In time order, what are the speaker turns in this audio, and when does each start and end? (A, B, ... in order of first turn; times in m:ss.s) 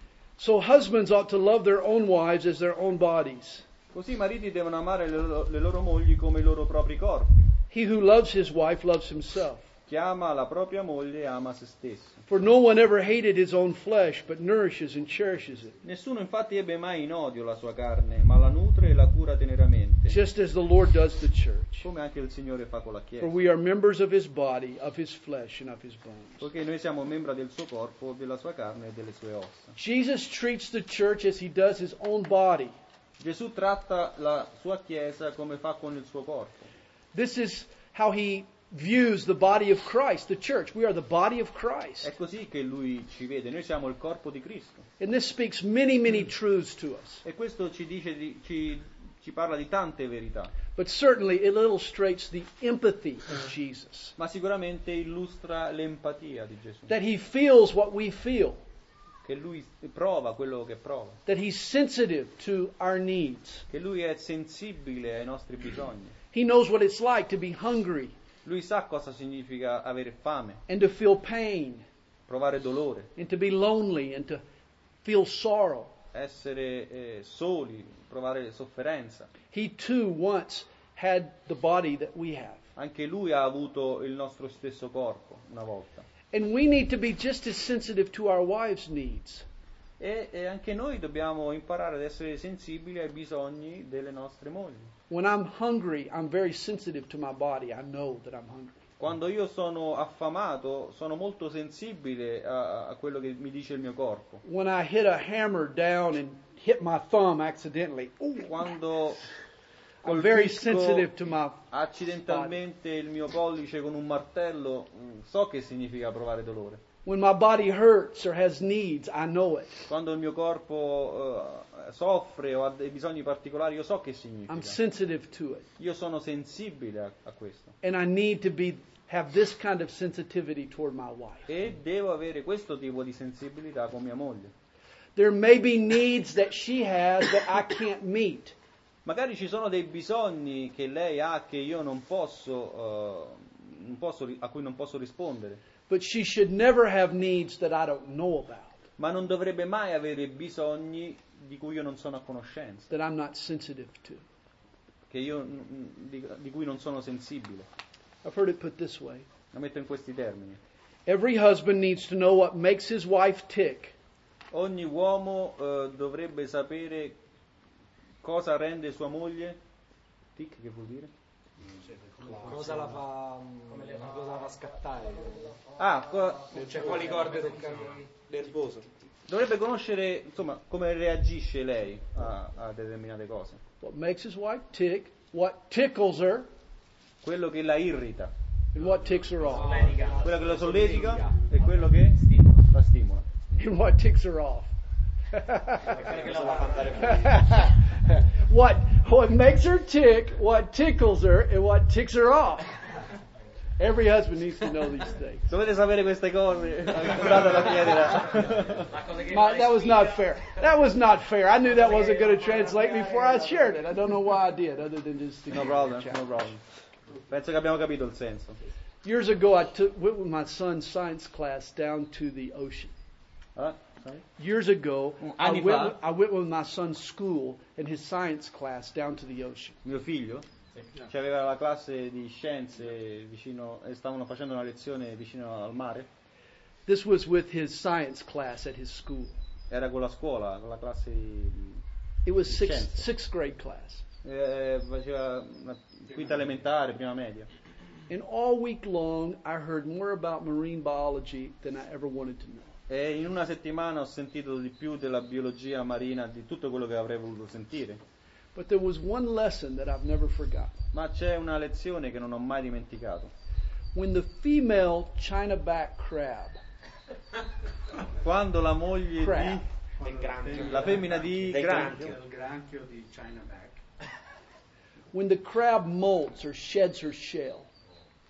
0:00.4-0:03.6 A
0:03.9-0:07.5 B
0:07.7-0:09.7 A
0:09.9-0:12.2 B
0:12.3-0:15.8 A
0:15.8-0:20.2 B
0:20.1-0:21.9 A
0:21.8-0:23.3 B
0:23.2-0:26.5 A
0:26.4-0:29.7 B
0:29.8-0:32.7 A
0:33.2-0:36.7 B
0:37.1-0:42.1 A
0:42.0-0:44.8 B
0:45.0-0:47.2 A
0:47.2-0:50.5 B
0:50.7-0:54.2 A
0:54.2-0:56.9 B
0:56.9-0:58.6 A
0:59.2-1:01.2 B
1:01.2-1:03.6 A
1:03.7-1:06.1 B
1:06.3-1:08.1 A
1:08.4-1:10.6 B
1:10.7-1:11.8 A
1:12.3-1:13.1 B
1:13.2-1:14.4 A
1:15.0-1:15.9 A
1:16.1-1:19.3 B
1:19.5-1:22.6 A
1:22.8-1:26.1 B
1:26.3-1:29.4 A
1:30.0-1:34.9 B
1:35.1-1:38.8 A
1:39.0-1:44.4 B
1:44.4-1:48.6 A
1:48.4-1:49.2 B
1:50.0-1:51.6 A
1:50.0-1:51.1 B
1:51.7-1:56.8 B
1:52.2-1:52.6 A
1:57.0-1:59.8 A
1:59.9-2:04.8 B
2:04.5-2:05.7 A
2:05.8-2:07.7 B
2:07.8-2:11.5 A
2:11.5-2:14.5 B
2:15.2-2:18.6 A
2:19.0-2:25.6 B
2:25.9-2:28.8 A
2:29.0-2:32.9 B
2:32.9-2:34.2 A
2:35.1-2:37.7 B
2:38.2-2:39.2 A
2:39.5-2:40.6 B
2:41.0-2:43.9 A
2:44.5-2:47.2 B
2:48.2-2:49.6 B
2:50.4-2:51.1 B
2:51.6-2:53.0 C
2:52.4-2:55.6 D
2:55.8-2:56.7 B
2:56.5-2:58.9 D
2:56.8-2:57.2 C
2:59.3-3:03.6 B
3:03.8-3:06.5 A
3:07.2-3:08.3 B
3:08.7-3:10.0 A
3:09.5-3:12.7 D
3:09.8-3:10.4 C
3:10.2-3:12.2 B
3:12.7-3:13.2 B
3:13.5-3:14.7 A
3:15.3-3:16.1 A
3:15.8-3:17.5 D
3:16.2-3:16.8 B
3:16.9-3:22.7 A
3:23.8-3:25.5 A
3:25.5-3:29.0 B
3:28.9-3:30.2 D
3:29.1-3:36.3 A
3:31.8-3:33.3 D
3:35.5-3:36.6 B
3:37.3-3:38.6 B
3:39.0-3:42.9 A
3:43.6-3:44.2 B
3:44.4-3:49.8 A
3:45.2-3:46.0 B
3:49.8-3:50.4 B
3:51.1-3:56.1 B
3:56.8-3:59.4 A
3:59.7-4:01.8 B
4:02.2-4:04.0 A
4:02.4-4:03.1 B
4:04.2-4:07.5 B
4:08.1-4:12.8 A
4:12.9-4:18.0 B
4:18.5-4:20.8 A
4:20.9-4:23.3 B
4:23.9-4:26.6 A
4:28.1-4:29.7 B
4:29.2-4:29.6 A
4:30.0-4:33.8 C
4:30.0-4:32.1 D
4:30.6-4:32.1 B
4:35.1-4:37.7 A